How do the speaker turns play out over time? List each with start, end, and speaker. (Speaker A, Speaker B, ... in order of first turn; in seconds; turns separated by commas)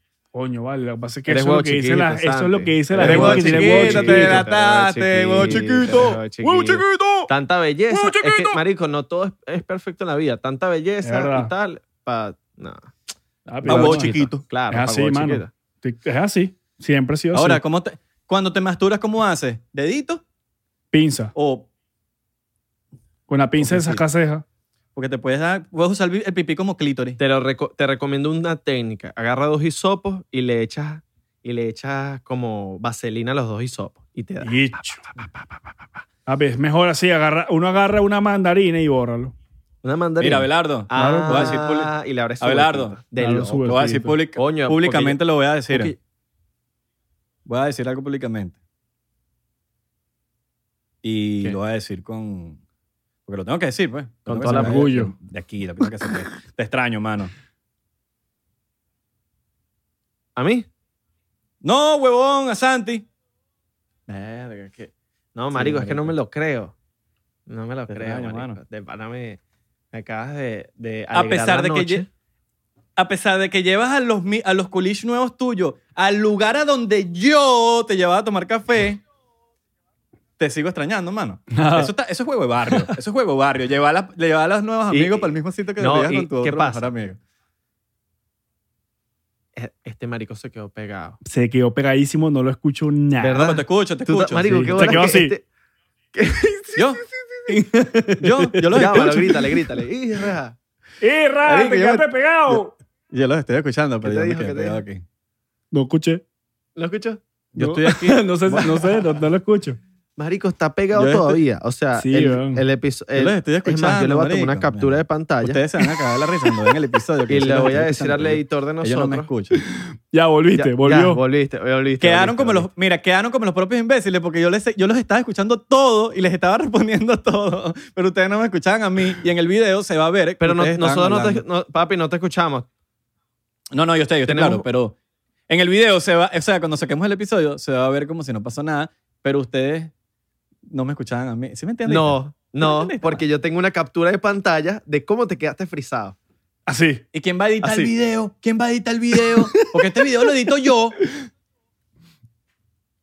Speaker A: 0.3-4.5, Speaker B: 1.3-12.9, Speaker C: 3.0-6.8, Speaker A: 6.6-7.3, Speaker A: 7.9-8.6, Speaker A: 11.0-11.5, Speaker A: 13.4-14.2, Speaker B: 13.6-15.5, Speaker C: 13.6-14.4, Speaker A: 14.7-17.6, Speaker C: 17.3-20.2, Speaker A: 20.9-21.3, Speaker C: 21.3-21.7, Speaker A: 23.3-24.4, Speaker B: 23.6-24.0, Speaker C: 24.9-27.2, Speaker B: 27.2-36.1, Speaker A: 34.4-35.0, Speaker A: 36.2-39.3, Speaker B: 39.8-43.7, Speaker C: 40.2-43.0, Speaker A: 40.9-41.6, Speaker A: 43.2-44.2, Speaker C: 43.7-45.9, Speaker B: 44.3-45.2, Speaker B: 45.7-46.0, Speaker C: 47.5-48.6, Speaker C: 51.0-52.6, Speaker C: 53.2-57.3, Speaker B: 54.2-54.9, Speaker A: 54.4-55.1, Speaker B: 60.4-60.7, Speaker C: 61.6-63.0, Speaker B: 64.1-66.7, Speaker C: 65.5-66.1, Speaker B: 67.5-69.4, Speaker C: 67.9-68.6, Speaker B: 69.9-72.1, Speaker C: 71.1-72.1, Speaker C: 73.0-79.0, Speaker C: 80.4-87.2, Speaker A: 81.5-81.9, Speaker B: 84.9-86.9, Speaker B: 89.5-91.2, Speaker A: 91.2-93.4, Speaker B: 93.2-95.4, Speaker C: 93.3-95.1, Speaker A: 94.5-95.3, Speaker B: 96.1-97.6, Speaker C: 96.8-97.0, Speaker A: 97.5-99.2, Speaker C: 98.2-99.4, Speaker B: 98.7-100.6, Speaker A: 101.0-102.7, Speaker C: 101.5-102.6, Speaker C: 103.1-105.0, Speaker B: 104.0-104.8, Speaker A: 105.7-106.2, Speaker B: 106.8-107.2, Speaker C: 107.5-108.7, Speaker A: 107.6-109.8, Speaker B: 110.2-115.6, Speaker C: 110.9-111.4, Speaker A: 112.0-112.6, Speaker C: 113.2-119.6, Speaker B: 117.3-119.3, Speaker A: 119.7-121.2, Speaker B: 120.5-122.7, Speaker C: 122.0-131.4, Speaker B: 130.4-132.7, Speaker C: 133.7-134.9, Speaker B: 134.2-134.7, Speaker C: 135.5-139.9, Speaker C: 140.7-143.2, Speaker B: 141.8-146.2, Speaker A: 146.7-147.0, Speaker C: 147.1-151.0, Speaker B: 147.6-147.9